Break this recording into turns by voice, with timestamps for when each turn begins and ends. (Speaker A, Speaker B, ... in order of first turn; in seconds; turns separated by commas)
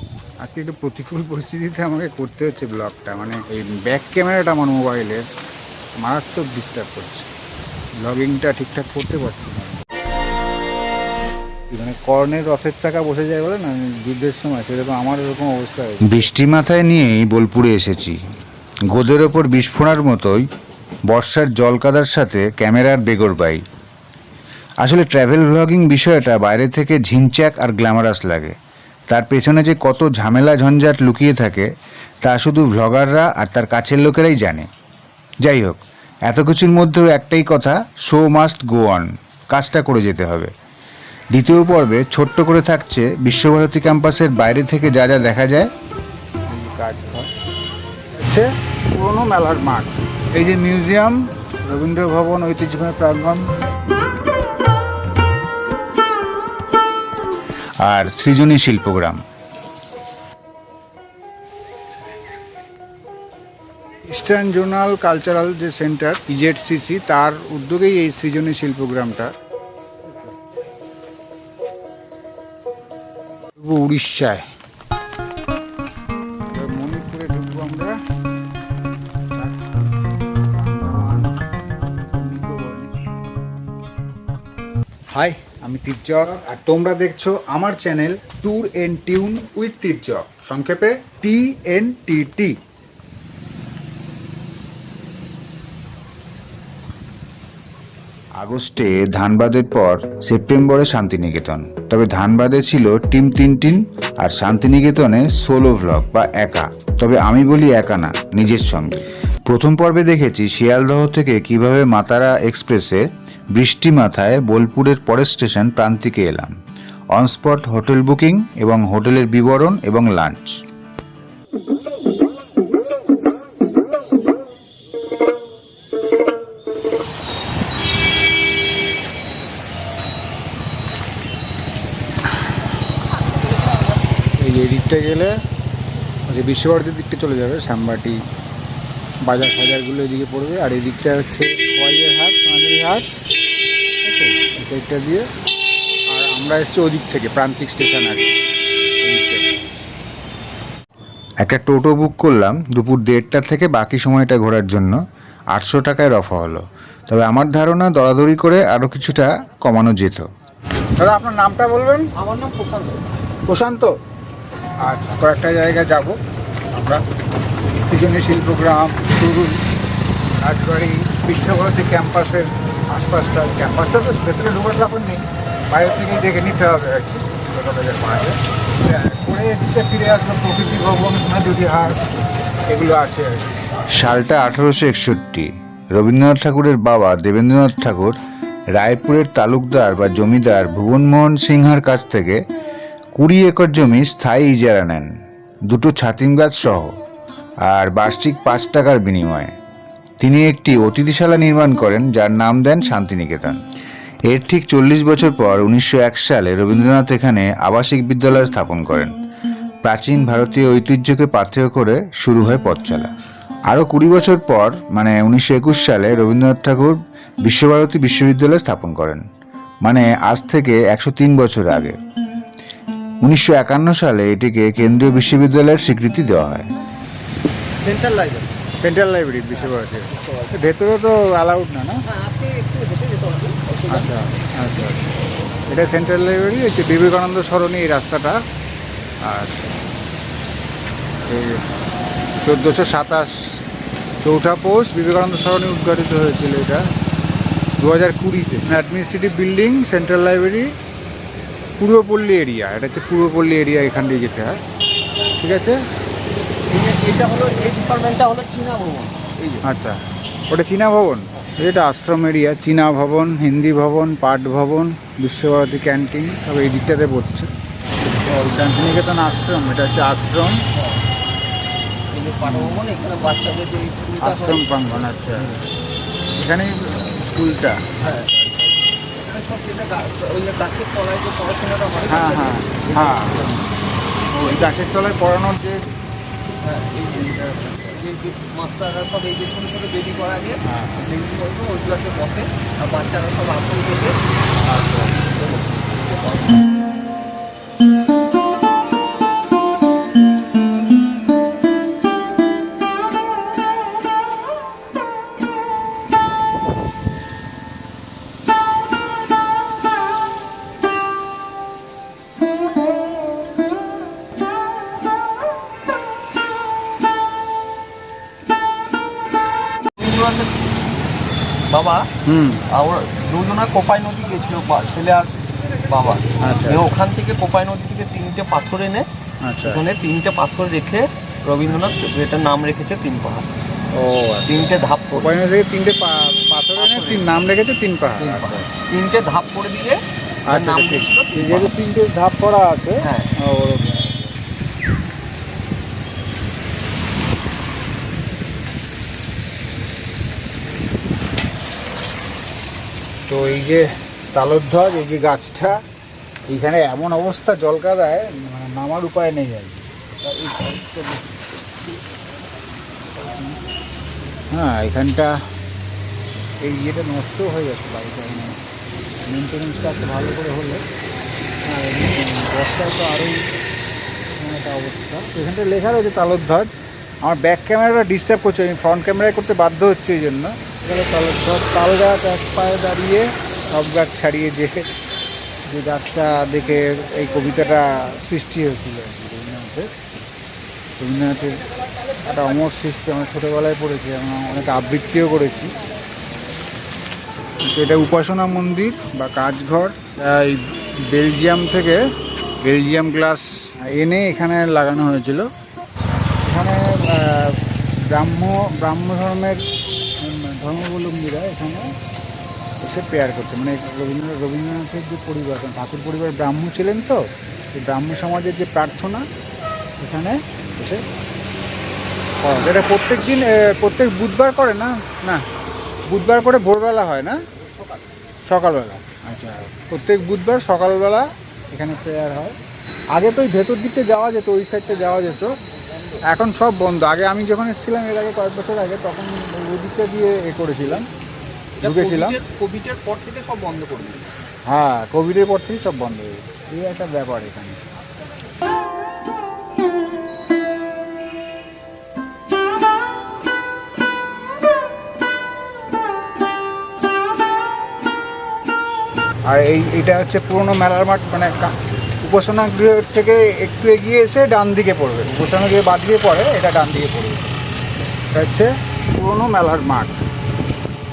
Speaker A: 0.4-5.3, Speaker A: 6.0-7.3, Speaker A: 8.0-9.8, Speaker A: 11.7-16.3, Speaker B: 16.0-18.2, Speaker B: 18.9-20.4, Speaker B: 21.1-23.6, Speaker B: 24.8-28.6, Speaker B: 29.1-31.7, Speaker B: 32.2-34.7, Speaker B: 35.4-40.5, Speaker B: 41.3-45.7, Speaker A: 46.5-47.3, Speaker A: 48.1-53.5, Speaker B: 57.8-59.2, Speaker A: 64.0-69.3, Speaker A: 73.6-74.5, Speaker A: 76.5-78.0, Speaker A: 79.3-79.6, Speaker A: 80.4-81.4, Speaker A: 82.1-82.9, Speaker A: 85.1-92.6, Speaker B: 98.4-116.5, Speaker B: 117.1-120.6, Speaker A: 134.4-135.4, Speaker A: 136.3-138.2, Speaker A: 139.2-143.1, Speaker A: 144.0-145.3, Speaker A: 146.1-148.3, Speaker A: 149.0-149.6, Speaker B: 151.4-155.0, Speaker B: 155.5-160.3, Speaker A: 161.0-162.1, Speaker C: 162.2-163.0, Speaker A: 163.5-163.9, Speaker A: 164.8-166.2, Speaker A: 166.7-167.0, Speaker A: 167.8-169.6, Speaker A: 170.4-182.0, Speaker A: 182.7-183.5, Speaker B: 183.9-188.2, Speaker B: 188.7-192.4, Speaker B: 193.2-195.1, Speaker B: 195.7-196.9, Speaker B: 197.6-199.5, Speaker B: 200.2-203.6, Speaker B: 204.3-209.2, Speaker B: 209.8-213.1, Speaker B: 213.7-219.2, Speaker B: 219.8-222.0, Speaker B: 223.2-226.7, Speaker C: 227.8-228.6, Speaker A: 228.8-232.0, Speaker C: 229.6-230.5, Speaker C: 232.1-234.1, Speaker A: 233.9-235.0, Speaker A: 235.7-238.4, Speaker A: 239.2-239.7, Speaker A: 241.2-241.6, Speaker A: 242.4-243.6, Speaker A: 244.2-246.9, Speaker A: 247.8-250.7, Speaker A: 251.8-254.6, Speaker A: 255.4-255.8, Speaker C: 256.7-259.6, Speaker A: 259.6-267.5, Speaker A: 268.3-270.6, Speaker C: 270.7-271.0, Speaker C: 272.1-274.8, Speaker A: 274.2-275.6, Speaker A: 276.4-277.9, Speaker C: 278.0-283.6, Speaker A: 282.1-283.6, Speaker A: 284.3-285.9, Speaker C: 286.6-296.7, Speaker A: 290.6-291.1, Speaker C: 320.0-320.5, Speaker C: 321.7-322.1, Speaker A: 322.2-322.6, Speaker C: 322.7-329.1, Speaker A: 326.4-326.9, Speaker A: 329.4-329.8, Speaker C: 329.6-333.5, Speaker A: 333.9-338.7, Speaker C: 334.5-335.4, Speaker C: 336.8-337.3, Speaker C: 338.2-341.7, Speaker A: 340.5-344.4, Speaker C: 343.0-343.3, Speaker A: 353.3-355.8, Speaker A: 356.5-359.9, Speaker C: 360.2-361.3, Speaker A: 364.5-365.3, Speaker A: 366.6-368.6, Speaker A: 369.2-370.9, Speaker A: 371.6-373.5, Speaker A: 374.3-376.7, Speaker A: 377.2-384.9, Speaker A: 385.7-389.9, Speaker A: 391.0-391.6, Speaker A: 392.2-395.8, Speaker A: 397.6-402.0, Speaker A: 402.6-405.5, Speaker A: 406.4-409.6, Speaker A: 410.2-411.9, Speaker A: 412.8-419.2, Speaker A: 420.0-421.0, Speaker A: 422.4-425.4, Speaker A: 426.1-427.4, Speaker C: 427.6-428.1, Speaker A: 428.5-432.6, Speaker A: 433.1-435.6, Speaker C: 435.7-436.2, Speaker A: 436.3-441.1, Speaker C: 441.8-444.2, Speaker A: 441.8-442.4, Speaker A: 444.7-447.8, Speaker A: 459.5-467.5, Speaker A: 468.3-470.2